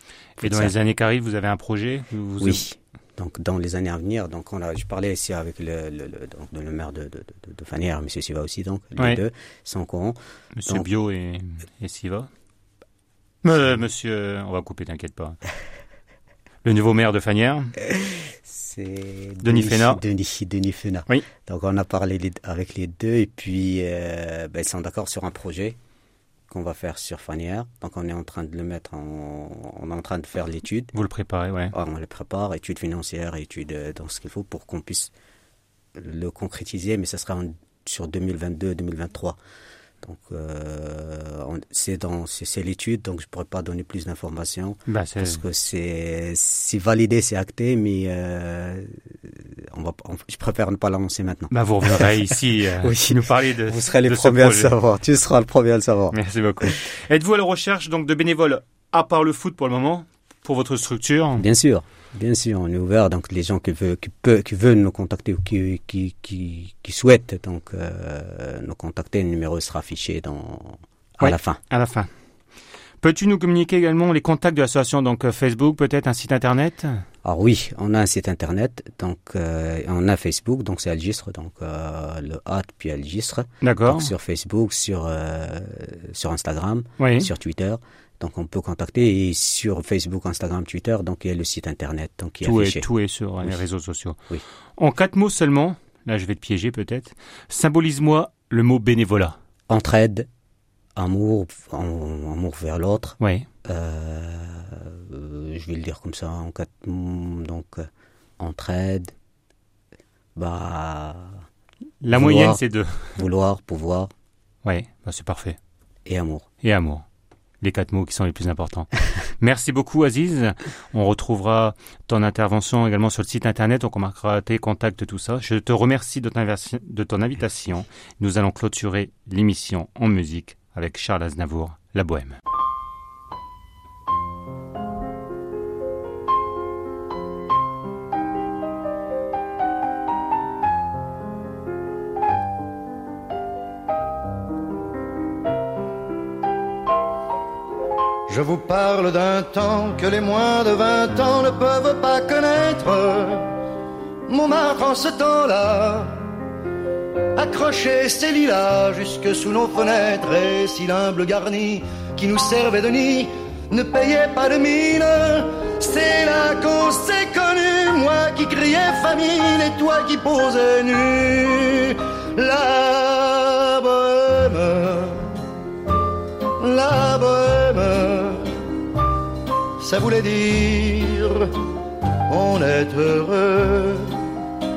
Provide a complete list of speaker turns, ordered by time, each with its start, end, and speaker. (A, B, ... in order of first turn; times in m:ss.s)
0:00.4-0:00.8 A
0:00.4-0:02.6 B
0:02.4-0:10.9 A
0:10.6-0:12.3 B
0:13.4-0:15.4 B
0:16.6-0:17.7 B
0:18.0-0:25.8 A
0:19.4-0:20.0 B
0:26.5-0:30.9 A
0:30.9-0:31.7 B
0:31.7-0:35.1 A
0:36.0-0:39.4 A
0:40.0-0:56.2 A
0:44.9-0:45.4 B
0:51.5-0:54.7 B
0:56.1-1:01.5 B
1:01.4-1:11.6 A
1:11.2-1:12.1 B
1:13.0-1:17.0 B
1:17.2-1:32.9 A
1:23.6-1:24.1 B
1:27.0-1:27.3 B
1:32.4-1:34.2 B
1:34.8-1:39.4 B
1:39.7-1:40.3 A
1:41.0-1:47.9 A
1:43.2-1:43.5 B
1:48.4-1:49.1 A
1:50.4-1:51.4 A
1:52.0-1:53.2 B
1:52.1-1:52.6 A
1:53.2-1:54.1 A
1:54.6-1:55.6 B
1:56.1-1:56.5 A
1:56.6-1:57.0 B
1:57.6-1:58.9 B
1:59.4-2:12.4 B
2:28.3-2:33.5 C
2:34.3-2:36.2 C
2:37.4-2:55.5 C
2:56.6-2:58.7 C
2:59.8-3:01.6 C
3:02.3-3:04.2 C